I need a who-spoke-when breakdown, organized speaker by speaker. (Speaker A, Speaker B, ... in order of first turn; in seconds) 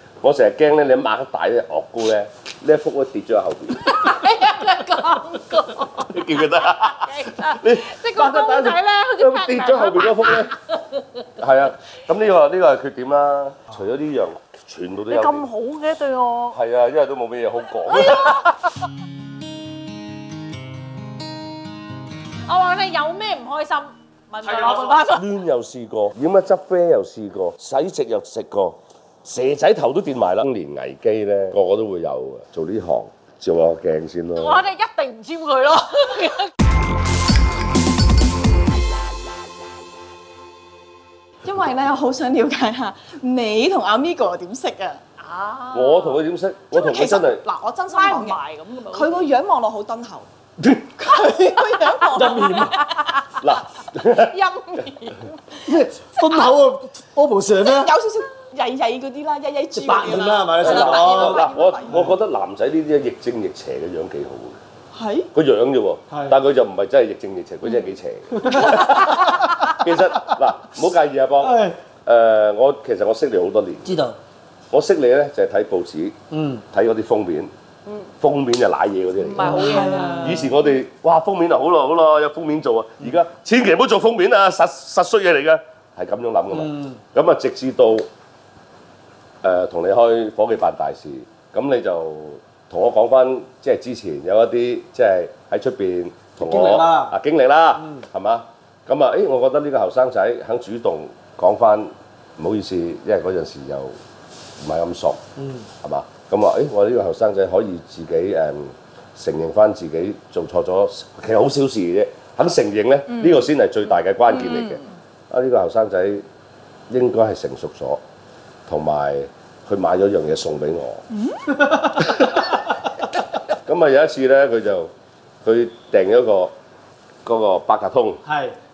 Speaker A: 0.2-4.0, 6.1-10.5, 11.4-15.5, 16.5-18.5, 25.0-34.6, 45.7-47.4, 53.4-54.4, 60.6-64.6, 65.3-74.0, 74.7-76.2, 76.7-77.5, 78.2-88.1, 89.4-103.9, 104.6-105.2, 105.8-116.2, 116.9-118.0, 118.7-121.0, 122.0-122.6, 123.6-124.9, 125.4-126.5, 127.2-128.2
Speaker B: 3.8-11.1, 15.1-16.6, 17.9-18.5, 22.4-25.3, 34.4-36.5, 45.2-46.2, 47.9-49.3, 54.1-55.3, 79.2-80.5, 114.3-114.8
Speaker C: 41.4-45.0, 46.7-48.4, 48.9-50.3, 50.9-53.1, 57.6-62.1, 64.9-65.3, 79.4-80.5, 121.1-121.6
Speaker D: 52.1-52.8, 55.6-57.9, 59.7-62.1, 66.1-66.4, 68.3-69.0, 71.4-71.8, 73.8-74.1, 76.3-76.6, 86.5-87.0, 96.4-97.2, 97.8-98.0, 105.4-105.7, 121.5-122.1, 128.2-128.5